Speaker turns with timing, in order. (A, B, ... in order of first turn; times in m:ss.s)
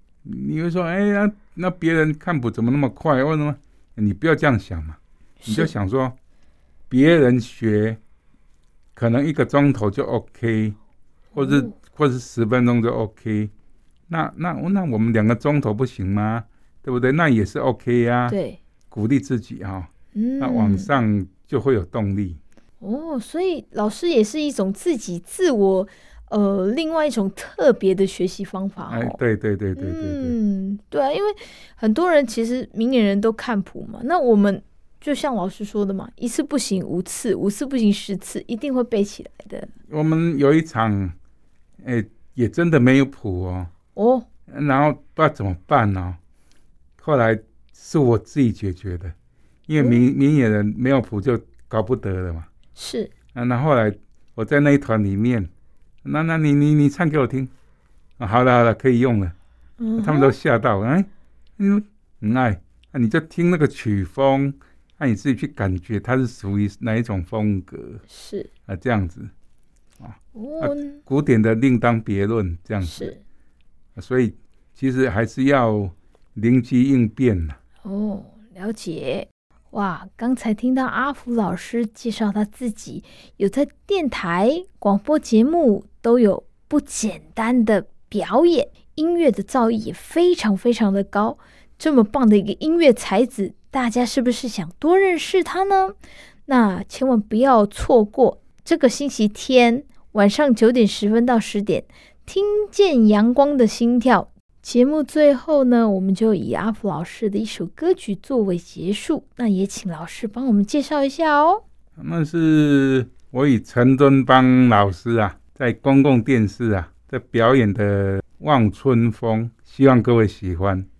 0:00.2-0:06.1 A
0:05.4-0:05.7 B
0:06.9-0:08.0 A
0:09.0-0:10.8 A
0:11.3-0:11.7 B
0:11.3-0:13.5 A
0:14.1-0:18.4 A
0:18.3-0:18.6 B
0:18.9-0:22.4 A
0:20.1-0:20.9 B
0:22.8-0:29.2 B
0:28.9-0:30.4 A
0:29.8-0:39.7 B
0:39.9-0:41.1 A
0:41.8-0:43.7 A
0:43.9-0:44.3 B
0:44.5-0:46.2 A
0:47.0-0:49.1 A
0:49.7-0:52.5 A
0:49.8-0:50.0 B
0:52.8-0:53.1 B
0:53.3-0:55.5 A
0:56.0-0:57.5 A
0:58.2-0:59.3 A
0:59.8-1:00.3 B
1:00.0-1:08.0 A
1:08.1-1:08.5 B
1:08.7-1:09.3 A
1:10.0-1:13.1 A
1:10.3-1:11.0 B
1:12.8-1:13.2 B
1:14.0-1:17.6 A
1:17.8-1:35.9 B
1:36.4-1:51.6 B
1:52.0-2:00.8 A